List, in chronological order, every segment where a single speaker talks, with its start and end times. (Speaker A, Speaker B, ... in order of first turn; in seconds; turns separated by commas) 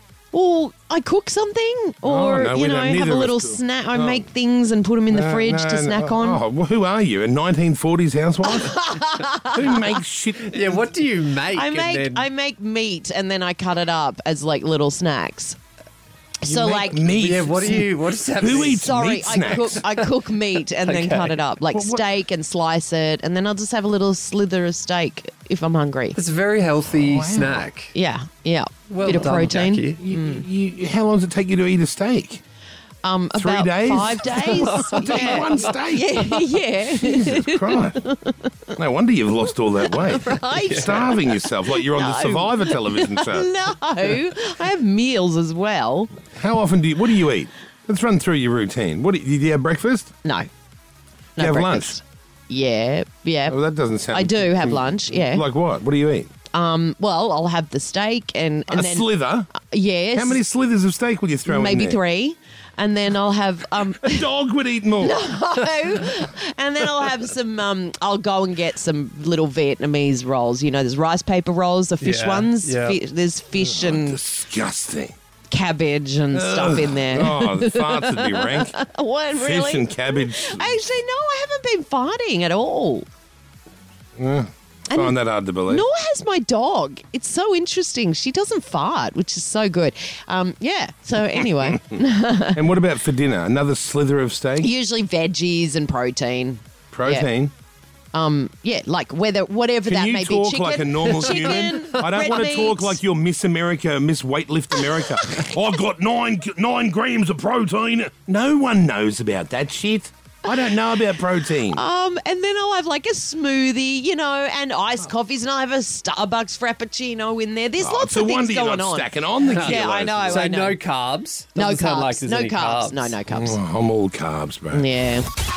Speaker A: 0.3-6.4, Speaker B: 2.0-4.3, Speaker B: 5.1-8.8, Speaker A: 8.4-10.0, Speaker B: 9.5-10.8, Speaker C: 10.4-12.3, Speaker A: 11.5-15.6, Speaker A: 16.4-17.1, Speaker B: 16.4-17.9, Speaker C: 17.0-18.9, Speaker B: 18.4-19.9, Speaker A: 18.5-26.2, Speaker C: 20.8-21.4, Speaker B: 21.7-22.0, Speaker C: 26.1-27.9, Speaker B: 27.0-27.7, Speaker A: 27.9-30.5, Speaker C: 28.9-30.0, Speaker B: 30.0-32.4, Speaker A: 33.0-38.4, Speaker B: 33.4-38.0, Speaker C: 34.4-35.7, Speaker B: 38.8-43.5, Speaker A: 39.8-46.2, Speaker B: 46.3-50.1, Speaker A: 50.2-50.5, Speaker A: 51.4-53.6, Speaker B: 51.4-52.0, Speaker B: 53.5-56.3, Speaker A: 54.1-55.5, Speaker A: 56.5-60.4, Speaker B: 58.7-59.5, Speaker B: 60.1-62.0, Speaker A: 61.5-64.3, Speaker B: 64.0-65.2, Speaker A: 65.0-74.2, Speaker C: 72.0-73.0, Speaker B: 73.6-75.2, Speaker A: 75.5-83.1, Speaker B: 76.3-78.8, Speaker B: 79.3-80.8, Speaker B: 84.2-85.9, Speaker A: 84.9-85.2, Speaker A: 85.7-92.6, Speaker B: 92.5-94.7, Speaker A: 94.6-97.3, Speaker B: 96.9-97.5, Speaker A: 98.1-103.0, Speaker B: 99.9-111.8, Speaker C: 101.2-102.1, Speaker A: 105.0-105.5, Speaker A: 110.5-120.8, Speaker B: 117.8-120.5, Speaker C: 119.5-123.2, Speaker A: 121.5-123.6, Speaker B: 123.3-124.9, Speaker A: 124.7-125.3